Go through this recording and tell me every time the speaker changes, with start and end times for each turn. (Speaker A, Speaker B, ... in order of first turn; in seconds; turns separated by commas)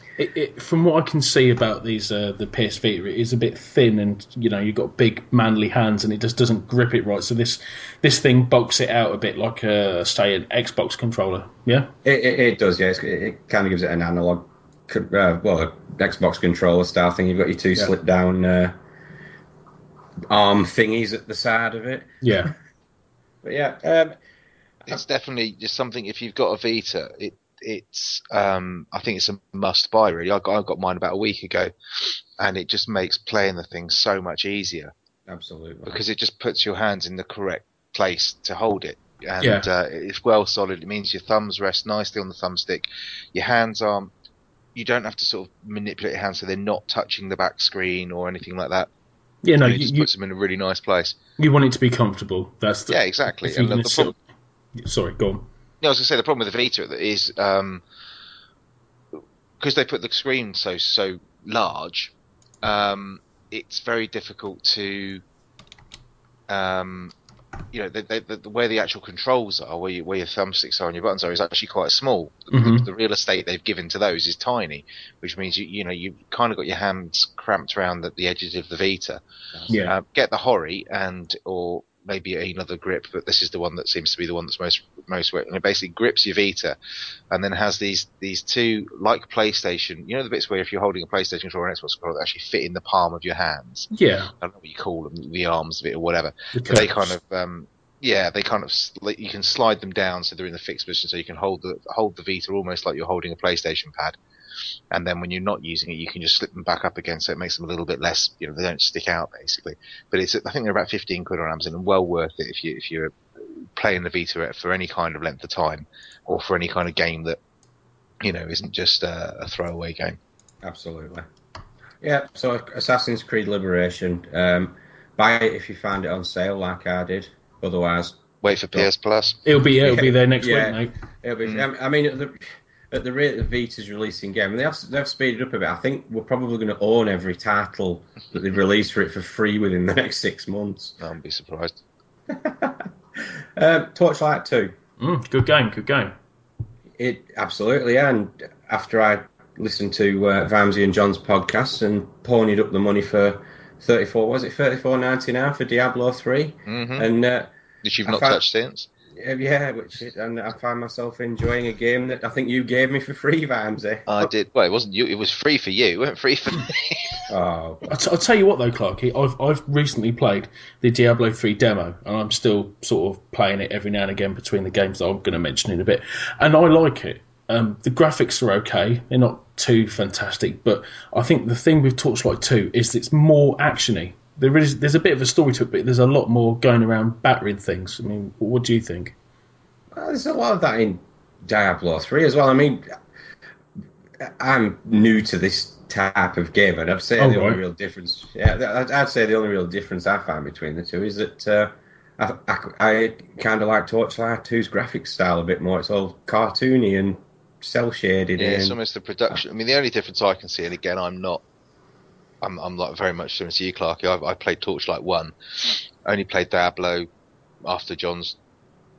Speaker A: 0.2-11.9, Speaker B: 12.1-18.8, Speaker B: 20.3-22.5, Speaker A: 22.2-22.5, Speaker B: 23.4-24.2, Speaker C: 24.9-31.7, Speaker C: 32.4-34.9, Speaker B: 35.3-36.0, Speaker C: 35.9-44.1, Speaker A: 39.4-39.7, Speaker C: 44.8-48.9, Speaker A: 49.4-50.1, Speaker C: 49.6-51.2, Speaker A: 51.4-54.2, Speaker C: 52.9-54.1, Speaker A: 54.8-55.5, Speaker C: 55.8-57.8, Speaker C: 59.6-65.2, Speaker C: 66.5-67.1, Speaker C: 67.7-79.2, Speaker A: 72.5-72.9, Speaker B: 79.6-79.8, Speaker A: 79.7-79.9, Speaker C: 79.8-86.8, Speaker C: 87.3-104.2, Speaker A: 93.9-94.3, Speaker A: 96.5-97.1, Speaker C: 104.9-117.4, Speaker C: 118.2-120.2, Speaker B: 120.6-121.3, Speaker B: 122.0-128.9, Speaker C: 128.4-129.4, Speaker A: 129.4-130.9, Speaker B: 129.8-140.9, Speaker C: 141.0-141.8, Speaker B: 142.3-144.8, Speaker A: 145.0-146.1, Speaker B: 147.0-157.5, Speaker C: 156.7-157.1, Speaker C: 157.8-158.9, Speaker B: 158.1-158.4, Speaker B: 159.2-164.3, Speaker C: 164.1-167.3, Speaker B: 167.3-167.9, Speaker A: 167.9-189.2, Speaker B: 189.9-192.9, Speaker B: 194.2-208.8, Speaker A: 197.2-197.6, Speaker C: 208.4-211.4, Speaker C: 212.4-217.1, Speaker C: 217.7-218.4